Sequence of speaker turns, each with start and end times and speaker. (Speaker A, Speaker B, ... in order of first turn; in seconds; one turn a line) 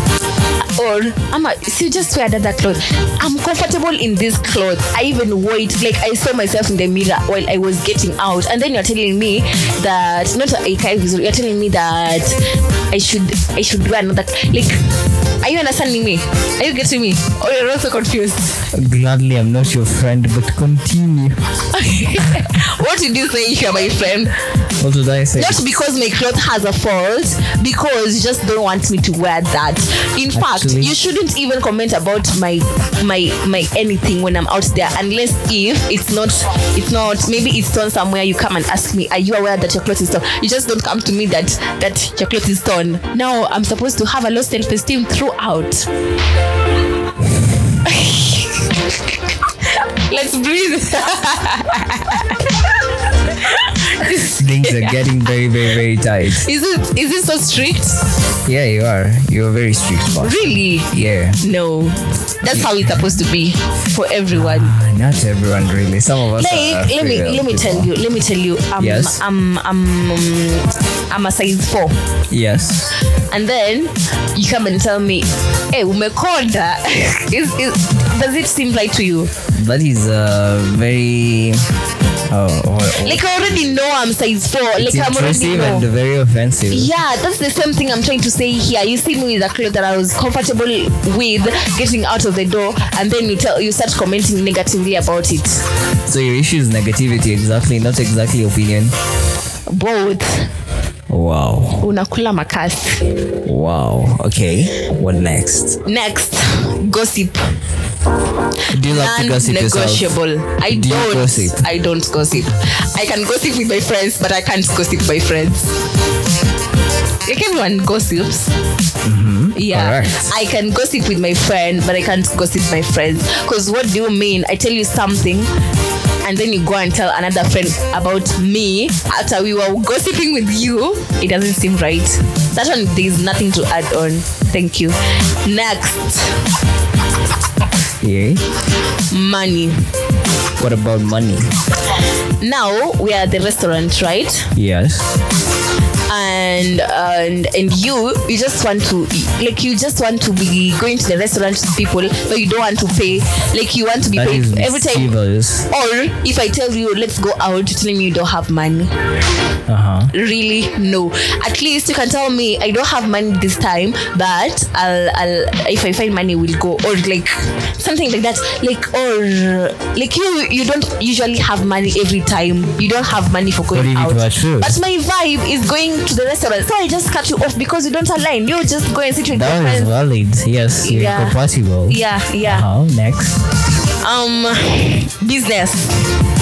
Speaker A: 0.7-14.8
Speaker A: 15.4-18.7
Speaker B: 18.7-21.4
Speaker A: 21.7-24.4
Speaker B: 24.8-25.6
Speaker A: 25.4-45.9
Speaker B: 30.3-30.9
Speaker A: 47.8-52.8
Speaker A: 53.3-55.0
Speaker B: 54.2-56.5
Speaker A: 56.4-58.0
Speaker B: 58.4-61.4
Speaker A: 60.2-64.7
Speaker B: 64.3-67.9
Speaker A: 66.4-72.0
Speaker B: 68.8-69.2
Speaker B: 72.3-72.9
Speaker A: 73.3-79.3
Speaker B: 79.5-81.7
Speaker B: 82.3-83.7
Speaker A: 83.0-85.9
Speaker B: 84.8-86.9
Speaker A: 86.7-95.6
Speaker B: 96.0-98.9
Speaker A: 99.7-100.5
Speaker B: 101.1-101.9
Speaker A: 101.8-103.0
Speaker B: 103.4-105.8
Speaker A: 105.8-107.5
Speaker B: 108.7-111.7
Speaker A: 108.8-115.8
Speaker A: 117.2-118.5
Speaker B: 119.0-120.3
Speaker A: 119.5-125.5
Speaker A: 126.2-136.4
Speaker B: 138.0-138.4
Speaker A: 139.1-139.8
Speaker B: 140.6-141.5
Speaker A: 142.4-144.5
Speaker B: 144.5-145.1
Speaker A: 146.1-155.1
Speaker B: 154.1-155.7
Speaker A: 155.7-158.9
Speaker B: 159.7-160.1
Speaker A: 160.1-179.9
Speaker B: 173.7-174.8
Speaker B: 179.3-183.4
Speaker A: 180.8-182.7
Speaker A: 184.0-186.1